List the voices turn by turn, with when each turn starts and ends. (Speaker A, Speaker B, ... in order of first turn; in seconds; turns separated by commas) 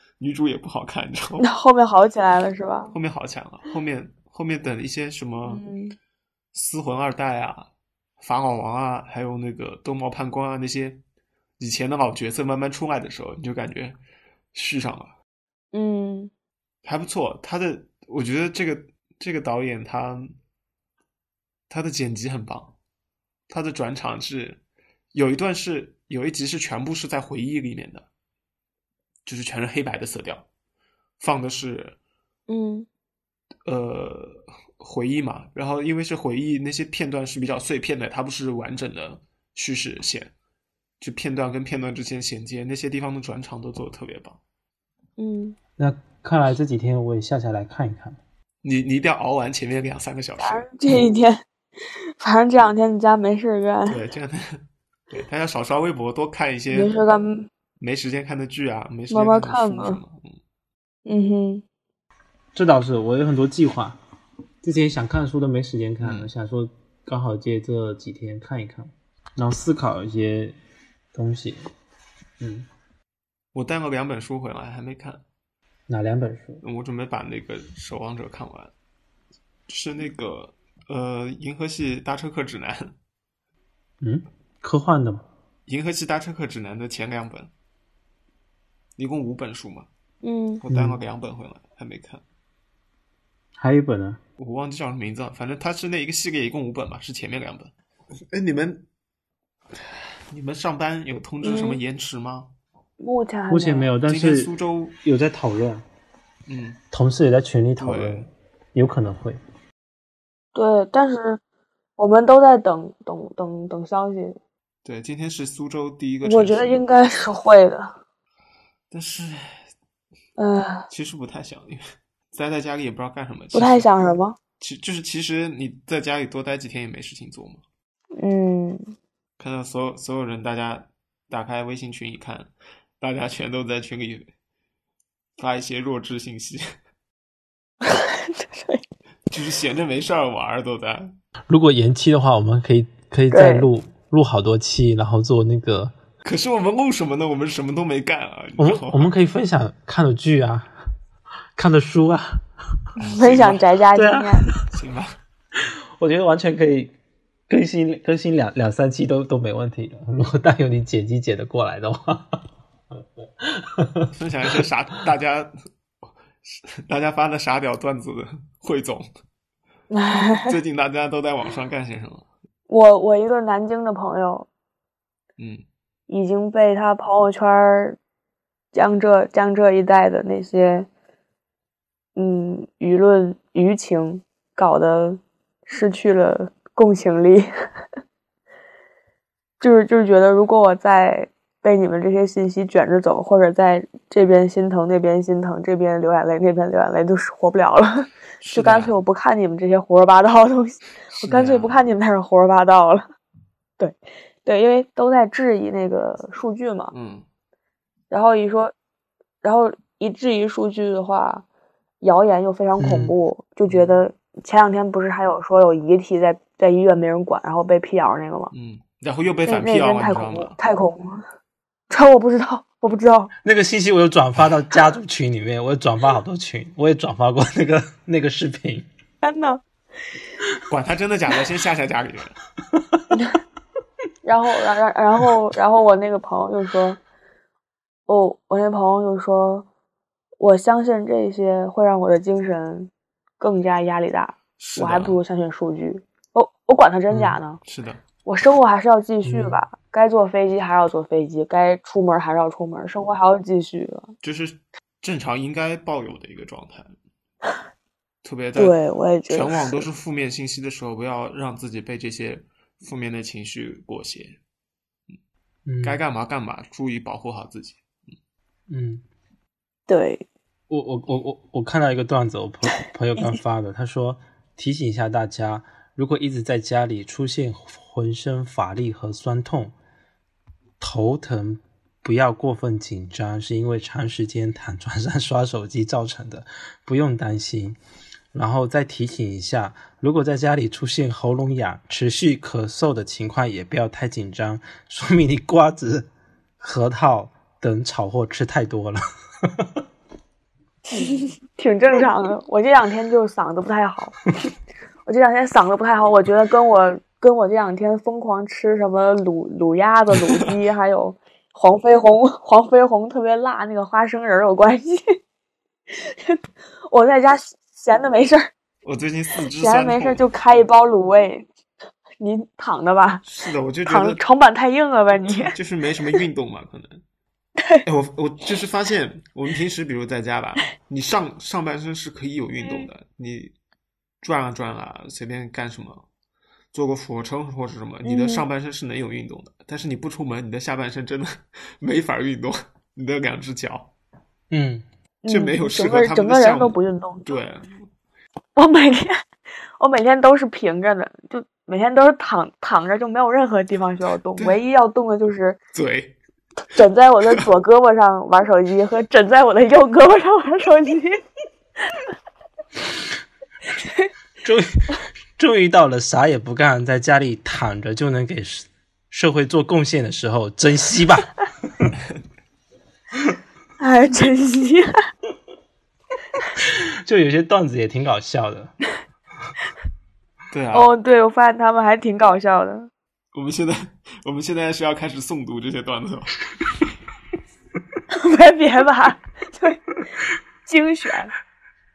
Speaker A: 0.2-1.5, Speaker B: 1.4-2.9, Speaker A: 2.9-5.6, Speaker B: 5.5-6.0, Speaker A: 6.5-7.7, Speaker A: 8.2-11.0, Speaker A: 11.6-14.0, Speaker A: 14.5-15.1, Speaker B: 15.7-16.3, Speaker A: 16.8-20.3, Speaker A: 21.7-22.8, Speaker A: 23.5-24.6, Speaker A: 25.1-28.1, Speaker A: 29.3-30.5, Speaker A: 31.2-32.0, Speaker B: 32.5-32.9, Speaker A: 33.7-40.3, Speaker A: 41.0-44.4, Speaker B: 45.2-45.6, Speaker C: 45.8-48.2, Speaker A: 48.6-50.7, Speaker B: 50.4-51.4, Speaker B: 52.2-54.0, Speaker A: 53.9-57.0, Speaker B: 56.7-57.5, Speaker A: 57.8-60.4, Speaker B: 59.1-60.0, Speaker B: 61.1-61.6, Speaker C: 62.5-64.0, Speaker C: 64.6-70.6, Speaker A: 66.0-66.3, Speaker C: 71.1-71.6, Speaker C: 72.4-72.7, Speaker A: 73.5-75.2, Speaker C: 75.9-76.6, Speaker A: 76.6-78.7, Speaker A: 79.7-82.9, Speaker C: 84.0-85.2, Speaker A: 85.7-87.5, Speaker A: 89.0-89.9, Speaker B: 90.2-90.6, Speaker A: 90.6-92.2, Speaker C: 90.7-91.0, Speaker C: 93.6-94.2, Speaker A: 94.4-97.7, Speaker A: 98.3-98.9, Speaker A: 99.8-102.5, Speaker B: 101.4-101.8, Speaker B: 103.0-103.9, Speaker C: 103.5-104.5, Speaker A: 104.1-105.0, Speaker C: 105.0-105.8, Speaker A: 106.5-106.8, Speaker C: 106.9-109.4, Speaker A: 107.8-108.3, Speaker B: 110.5-111.4, Speaker B: 112.0-114.4, Speaker A: 114.8-116.8, Speaker B: 116.2-118.0, Speaker A: 118.9-119.6, Speaker B: 120.4-120.9, Speaker A: 120.9-123.9, Speaker B: 123.5-124.4, Speaker A: 124.6-127.6, Speaker B: 128.2-128.9, Speaker A: 129.4-134.3, Speaker A: 135.4-136.7, Speaker B: 137.8-138.8, Speaker A: 139.3-141.1, Speaker C: 141.5-145.9, Speaker B: 143.3-143.7, Speaker A: 146.2-149.1, Speaker C: 148.6-150.7, Speaker C: 151.6-152.4, Speaker B: 153.0-154.5, Speaker A: 153.1-153.6, Speaker C: 153.9-154.6, Speaker A: 154.7-155.2, Speaker C: 155.6-156.9, Speaker C: 157.5-162.4, Speaker C: 163.4-164.6, Speaker A: 164.1-165.5, Speaker A: 166.4-169.1, Speaker B: 169.9-170.6, Speaker A: 170.3-172.3, Speaker B: 172.7-174.5, Speaker A: 175.4-175.6, Speaker B: 176.1-178.0, Speaker B: 178.7-180.9, Speaker B: 182.2-187.5, Speaker B: 189.6-203.1, Speaker A: 198.4-199.0, Speaker A: 201.1-201.8, Speaker B: 203.8-206.9, Speaker A: 206.9-207.3, Speaker B: 208.1-208.7, Speaker B: 209.4-211.4, Speaker B: 212.0-218.5, Speaker C: 212.8-213.1, Speaker A: 213.7-213.9, Speaker A: 218.5-220.6, Speaker B: 219.5-221.2, Speaker B: 221.9-223.3, Speaker C: 223.4-228.9, Speaker B: 229.2-229.6, Speaker A: 230.7-232.4, Speaker B: 234.2-237.0, Speaker B: 238.1-239.7, Speaker B: 240.4-247.6, Speaker A: 244.6-245.2, Speaker C: 247.1-247.4, Speaker A: 247.7-248.0, Speaker B: 248.2-254.1, Speaker C: 249.2-249.6, Speaker A: 254.2-256.9, Speaker A: 258.2-258.8, Speaker B: 258.6-259.9, Speaker A: 259.3-264.4, Speaker C: 265.7-266.0, Speaker A: 265.8-267.8, Speaker C: 268.7-269.0, Speaker B: 269.9-270.3, Speaker C: 270.7-279.7, Speaker C: 280.8-287.8, Speaker C: 288.3-296.1, Speaker C: 296.6-299.7, Speaker B: 300.9-304.2, Speaker B: 305.1-315.2, Speaker B: 315.9-318.5, Speaker A: 318.8-320.2, Speaker B: 319.6-321.5, Speaker B: 322.2-323.2, Speaker A: 323.2-324.2, Speaker B: 323.9-325.5, Speaker A: 325.4-327.0, Speaker A: 327.9-333.5, Speaker B: 332.6-332.9, Speaker A: 334.2-336.1, Speaker A: 336.7-343.9, Speaker B: 338.1-338.4, Speaker C: 344.5-344.9, Speaker B: 345.2-347.4, Speaker A: 345.3-347.9, Speaker B: 348.6-349.2, Speaker B: 349.8-355.6, Speaker A: 355.7-356.2, Speaker B: 356.7-361.2, Speaker C: 364.4-371.9, Speaker B: 373.8-374.9, Speaker C: 376.6-378.7, Speaker A: 380.5-380.9, Speaker B: 380.7-382.9, Speaker A: 383.3-386.4, Speaker B: 388.1-389.9, Speaker B: 390.7-391.3